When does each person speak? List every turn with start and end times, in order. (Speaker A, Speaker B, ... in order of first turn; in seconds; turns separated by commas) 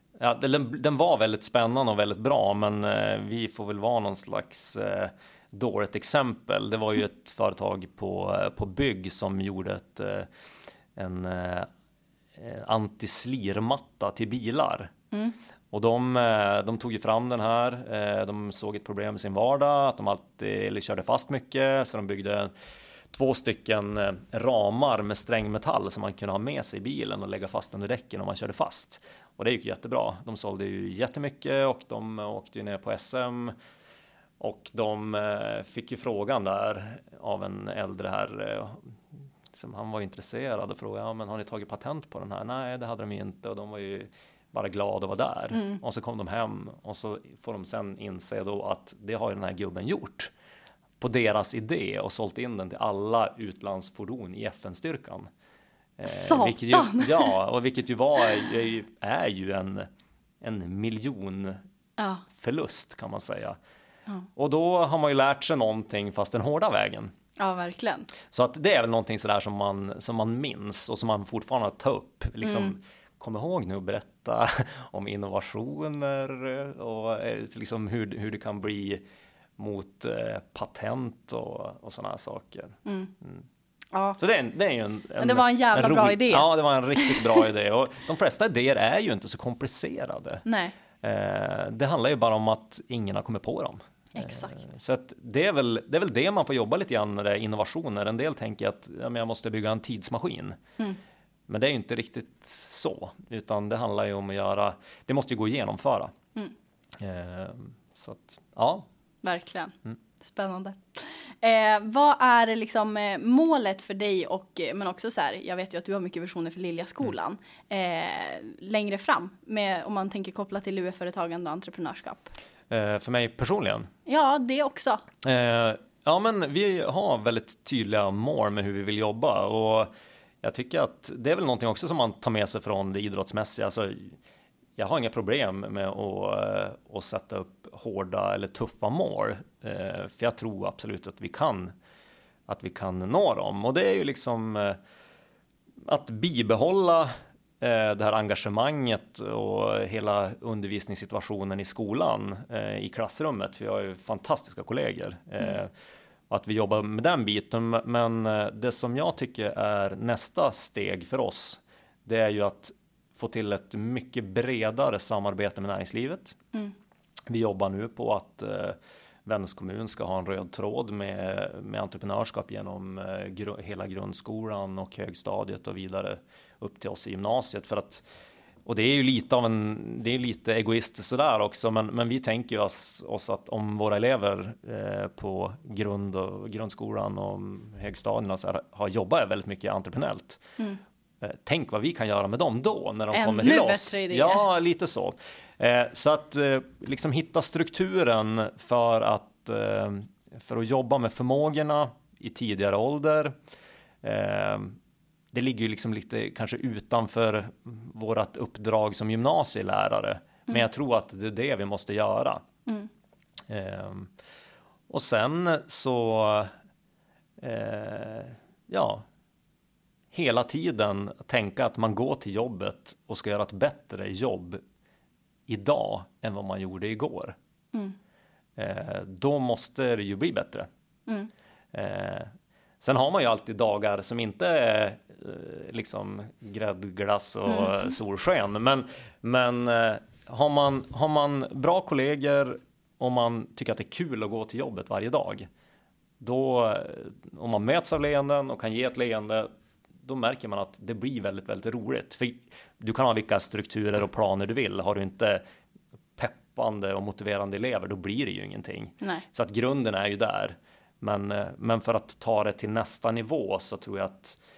Speaker A: 0.2-10.3, Speaker A: 10.9-11.7, Speaker A: 12.3-14.9, Speaker A: 15.7-22.5, Speaker A: 23.1-33.5, Speaker A: 34.4-39.0, Speaker A: 39.5-50.3, Speaker A: 51.0-55.3, Speaker A: 56.0-59.9, Speaker B: 56.0-57.3, Speaker A: 60.4-61.6, Speaker B: 62.0-62.2, Speaker A: 62.3-63.6, Speaker A: 64.3-67.1, Speaker B: 67.4-68.1, Speaker A: 68.3-79.0, Speaker B: 72.4-72.7, Speaker A: 79.6-83.4, Speaker B: 82.8-83.1, Speaker B: 83.9-84.2, Speaker A: 84.2-90.4, Speaker B: 85.2-87.4, Speaker B: 90.5-90.7, Speaker A: 91.0-100.6, Speaker B: 94.1-94.6, Speaker A: 101.5-106.1, Speaker A: 107.0-108.8, Speaker B: 109.2-122.3, Speaker A: 122.7-123.9, Speaker B: 124.0-125.0, Speaker A: 125.2-129.9, Speaker A: 130.4-134.2, Speaker A: 134.8-141.7, Speaker A: 142.5-144.8, Speaker A: 145.8-155.7, Speaker A: 156.3-166.4, Speaker A: 167.3-178.0, Speaker A: 178.7-190.4, Speaker A: 191.2-203.3, Speaker B: 193.1-194.4, Speaker A: 204.0-204.8, Speaker A: 205.3-212.4, Speaker A: 213.5-214.1, Speaker A: 214.9-216.5, Speaker A: 217.4-219.0, Speaker A: 220.1-224.6, Speaker A: 225.5-227.3, Speaker A: 228.6-230.7, Speaker A: 231.7-232.3, Speaker A: 232.8-245.4, Speaker B: 237.5-237.7, Speaker A: 246.2-249.5, Speaker A: 250.0-255.4, Speaker A: 256.2-264.4